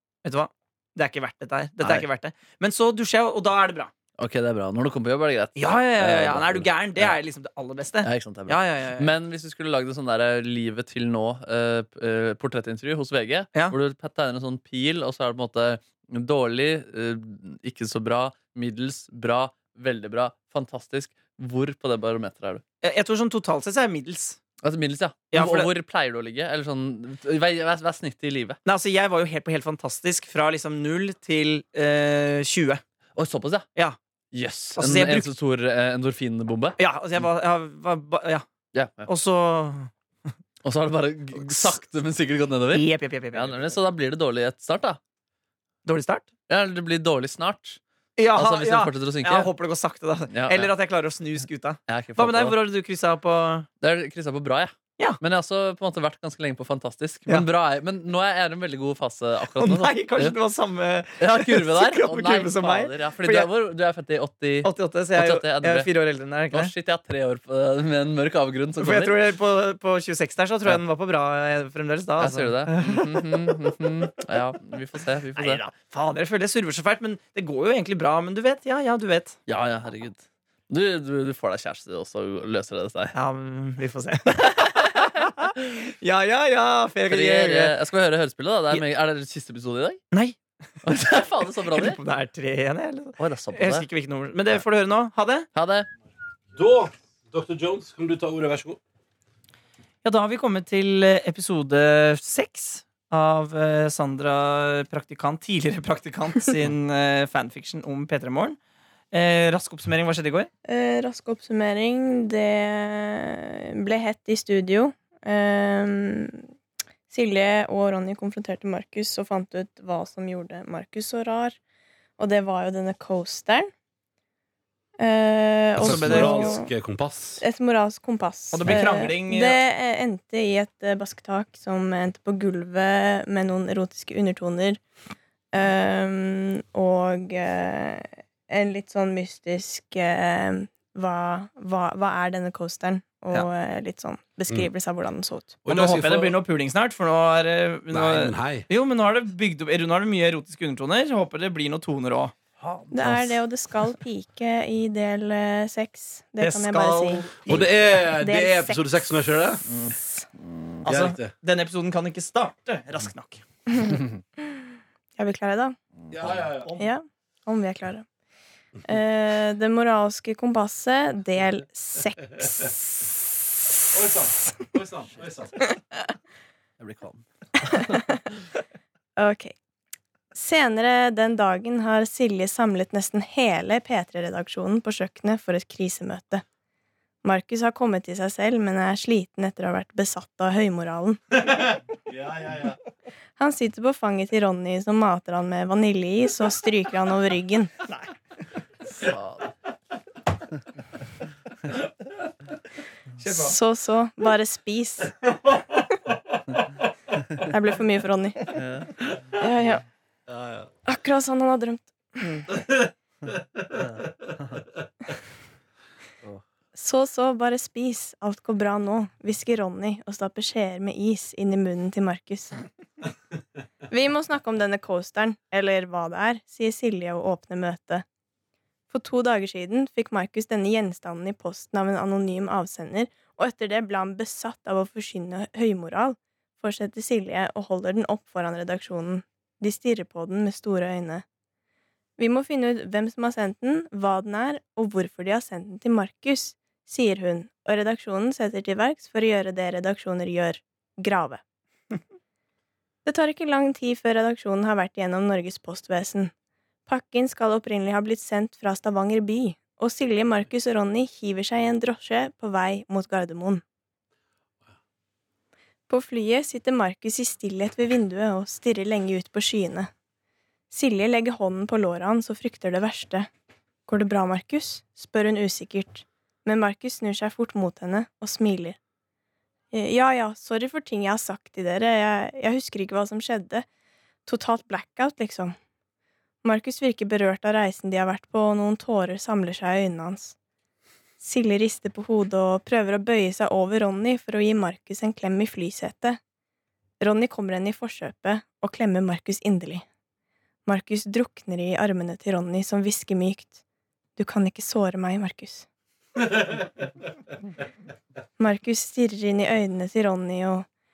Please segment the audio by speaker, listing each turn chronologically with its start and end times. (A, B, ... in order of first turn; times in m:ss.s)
0:00.2-0:03.9 A
0:01.8-0:02.1 B
0:04.2-0:07.2 B
0:05.6-0:09.1 A
0:08.0-0:22.6 B
0:22.8-0:24.4 A
0:24.6-0:28.6 B
0:25.3-0:25.7 A
0:28.7-0:32.8 A
0:33.2-0:33.7 B
0:34.3-0:36.8 B
0:34.8-0:35.3 A
0:36.8-0:38.4 A
0:38.7-0:39.1 B
0:39.1-0:39.9 A
0:40.6-0:45.0 B
0:41.4-0:41.7 A
0:42.7-0:43.7 A
0:45.8-0:46.3 A
0:46.5-0:47.8 B
0:48.2-0:53.7 A
0:48.3-0:49.5 B
0:50.3-0:50.7 B
0:51.9-0:52.6 B
0:53.8-1:00.4 B
0:59.6-1:03.5 A
1:01.2-1:05.9 B
1:04.6-1:06.7 A
1:06.5-1:09.2 B
1:08.8-1:13.6 A
1:12.2-1:15.6 B
1:15.4-1:19.4 A
1:19.5-1:23.2 B
1:23.1-1:27.8 A
1:27.1-1:30.0 B
1:30.1-1:30.4 A
1:30.8-1:32.0 B
1:31.7-1:35.5 A
1:33.2-1:33.9 B
1:35.5-1:35.9 B
1:36.5-1:38.8 C
1:40.0-1:48.6 A
1:49.1-1:50.5 A
1:50.7-1:56.4 D
1:57.1-2:01.6 D
2:02.2-2:03.7 D
2:05.0-2:06.7 D
2:05.8-2:07.4 C
2:05.8-2:06.6 A
2:07.4-2:14.8 D
2:08.5-2:09.6 A
2:15.5-2:25.6 D
2:25.6-2:26.4 C
2:25.7-2:32.3 A
2:27.9-2:28.7 C
2:32.6-2:33.4 B
2:32.9-2:37.3 D
2:36.4-2:37.7 A
2:37.5-2:39.6 C
2:38.2-2:38.8 D
2:39.7-2:40.8 B
2:39.9-2:40.2 D
2:40.8-2:43.4 A
2:40.9-2:41.3 C
2:43.7-2:44.6 D
2:45.2-2:45.8 D
2:46.1-2:46.4 B
2:46.1-2:46.8 C
2:46.8-2:48.1 D
2:48.8-2:53.1 D
2:53.9-2:55.5 C
2:56.8-2:58.2 B
2:57.8-2:58.1 D
2:59.2-2:59.6 D
3:00.3-3:06.4 D
3:07.2-3:11.2 D
3:13.4-3:17.7 D
3:19.0-3:19.5 B
3:23.2-3:23.6 A
3:23.3-3:25.2 D
3:27.4-3:28.6 D
3:28.5-3:29.1 B
3:29.4-3:29.8 D
3:30.8-3:32.6 D
3:36.7-3:42.6 D
3:43.9-3:48.0 D
3:48.9-4:01.2 D
4:02.2-4:11.4 D
4:13.0-4:16.3 D
4:16.9-4:23.6 D
4:25.9-4:29.9 D
4:30.7-4:33.3 D
4:33.9-4:38.8 D
4:39.7-4:43.6 D
4:44.3-4:45.5 D
4:46.4-4:50.4 D
4:51.2-4:56.2 D
4:57.0-4:59.9 D
5:00.7-5:03.6 D
5:04.2-5:05.7 D
5:08.4-5:10.7 D